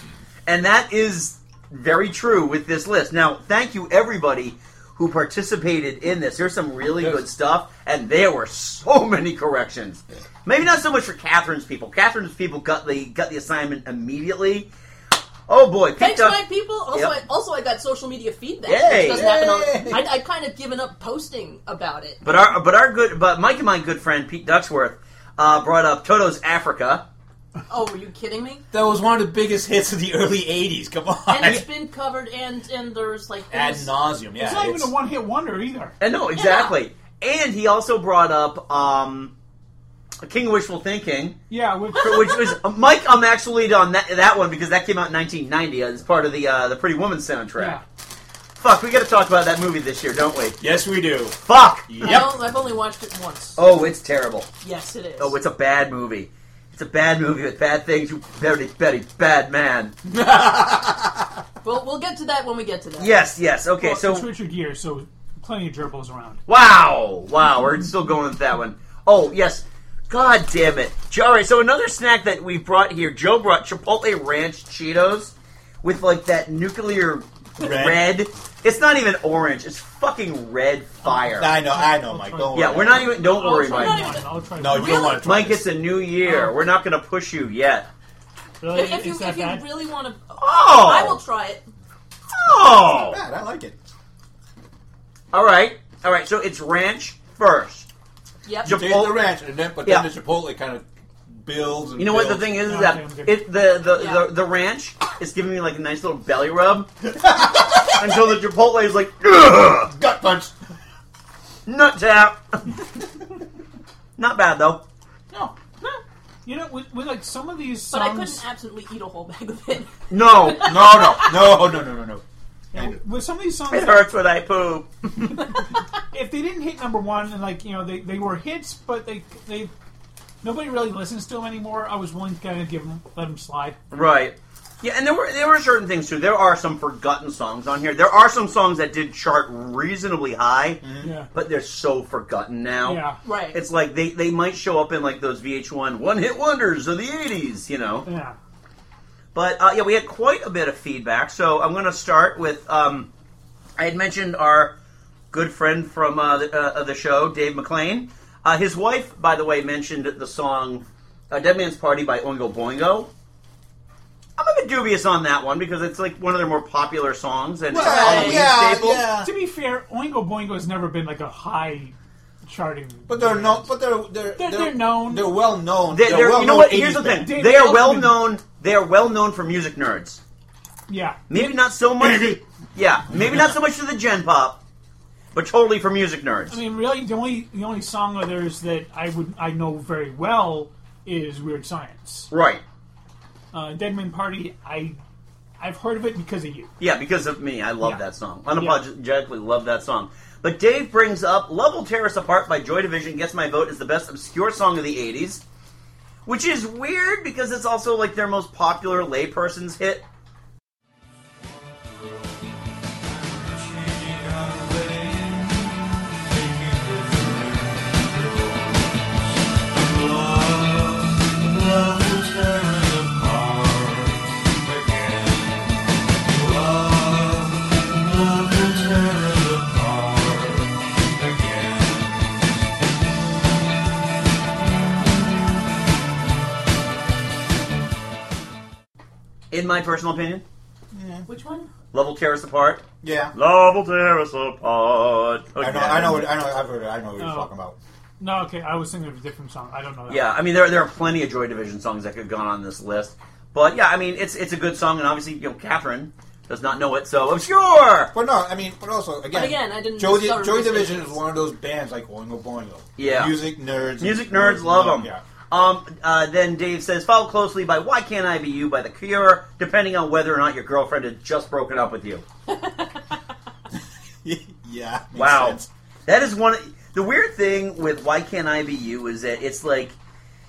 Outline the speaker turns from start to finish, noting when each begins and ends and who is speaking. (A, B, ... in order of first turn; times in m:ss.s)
0:00.5-0:14.7 A
0:07.0-0:07.2 B
0:15.5-0:17.2 A
0:16.0-0:22.2 C
0:18.7-0:19.3 A
0:18.9-0:20.1 B
0:22.2-0:27.0 A
0:27.7-0:28.6 C
0:28.7-0:31.6 B
0:31.3-0:33.9 C
0:33.5-0:34.9 B
0:34.4-0:36.0 D
0:36.0-0:39.3 A
0:36.4-0:36.8 C
0:40.2-0:41.4 A
0:41.5-0:42.3 D
0:42.0-0:47.8 A
0:48.6-0:50.6 A
0:50.6-0:52.4 B
0:51.4-0:52.3 A
0:52.0-0:53.6 C
0:53.6-0:54.5 A
0:54.6-0:55.3 C
0:55.2-0:59.9 A
1:00.1-1:01.4 B
1:01.6-1:03.1 C
1:03.0-1:04.3 A
1:03.8-1:06.4 D
1:06.5-1:21.6 A
1:17.6-1:18.2 B
1:21.1-1:23.1 B
1:21.8-1:25.2 D
1:22.5-1:24.2 A
1:23.5-1:25.2 C
1:24.6-1:25.6 B
1:25.0-1:27.9 A
1:26.2-1:26.5 D
1:28.6-1:29.6 D
1:28.7-1:31.6 C
1:30.4-1:31.2 A
1:32.4-1:33.2 A
1:32.8-1:33.8 B
1:35.3-1:37.9 A
1:38.4-1:38.8 C
1:38.6-1:39.3 A
1:38.6-1:42.5 B
1:42.0-1:49.9 A
1:42.6-1:43.4 D
1:44.0-1:44.2 C
1:47.2-1:47.8 B
1:49.9-1:50.5 B
1:51.7-1:52.7 A
1:54.2-1:54.8 A
1:56.5-1:58.4 D
1:57.9-2:01.0 C
2:00.1-2:01.3 A
2:00.6-2:02.2 B
2:02.7-2:04.1 D
2:03.7-2:05.1 A
2:06.1-2:09.7 D
2:10.4-2:13.8 D
2:13.9-2:23.0 A
2:20.8-2:21.1 B
2:21.0-2:21.3 D
2:22.8-2:23.2 D
2:23.2-2:23.6 C
2:23.5-2:28.1 A
2:28.0-2:28.4 D
2:29.3-2:33.1 A
2:33.8-2:34.7 A
2:35.3-2:43.1 A
2:44.4-2:49.1 A
2:47.7-2:49.3 B
2:47.8-2:48.4 C
2:49.2-2:53.7 D
2:53.1-2:57.3 B
2:54.4-2:55.4 D
2:55.9-3:00.2 A
2:57.2-2:58.2 D
3:00.9-3:01.5 D
3:01.3-3:04.6 A
3:05.3-3:06.6 A
3:06.5-3:12.3 D
3:12.3-3:12.6 A
3:13.5-3:15.0 D
3:15.6-3:16.7 D
3:16.8-3:25.4 A
3:17.8-3:18.8 D
3:26.2-3:30.0 A
3:59.5-4:00.4 A
4:00.9-4:01.3 B
4:01.3-4:01.7 C
4:01.9-4:02.8 A
4:03.0-4:03.3 B
4:03.3-4:06.3 A
4:05.6-4:07.8 B
4:07.2-4:07.5 D
4:08.2-4:10.3 D
4:10.1-4:18.1 A
4:18.1-4:25.2 B
4:19.3-4:21.2 C
4:23.0-4:23.4 A
4:24.0-4:32.2 A
4:32.5-4:33.0 C
4:34.2-4:35.7 B
4:35.2-4:40.0 A